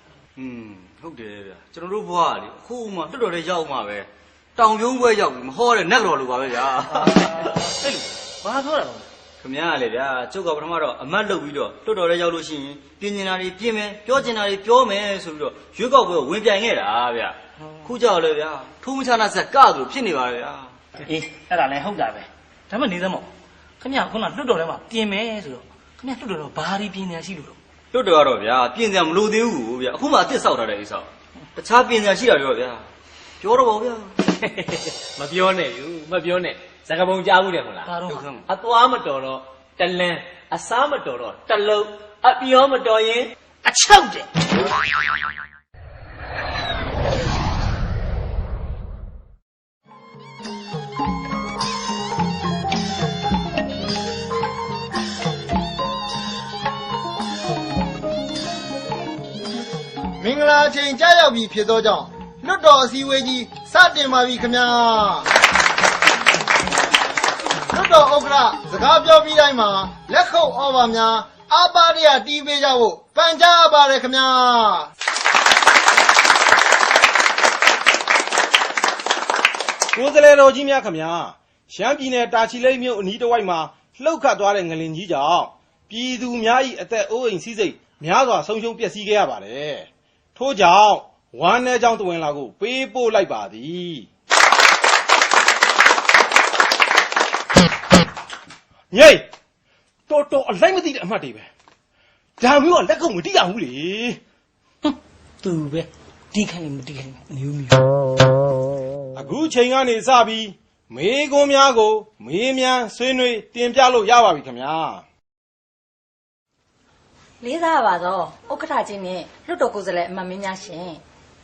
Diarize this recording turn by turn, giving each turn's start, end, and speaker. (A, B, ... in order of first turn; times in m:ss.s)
0:00.4-0:07.1 A
0:09.4-0:20.7 A
0:21.0-0:27.6 B
0:27.9-0:32.8 A
0:33.4-0:34.1 A
0:34.6-0:43.3 C
0:37.8-0:38.4 B
0:43.6-0:44.3 B
1:00.2-1:05.3 D
1:07.7-1:14.9 D
1:19.9-1:34.1 E
1:38.9-1:39.3 E
1:40.1-1:41.5 E
1:42.4-1:44.2 E
1:44.8-1:47.9 B
1:49.1-1:55.0 E
1:57.4-2:01.0 F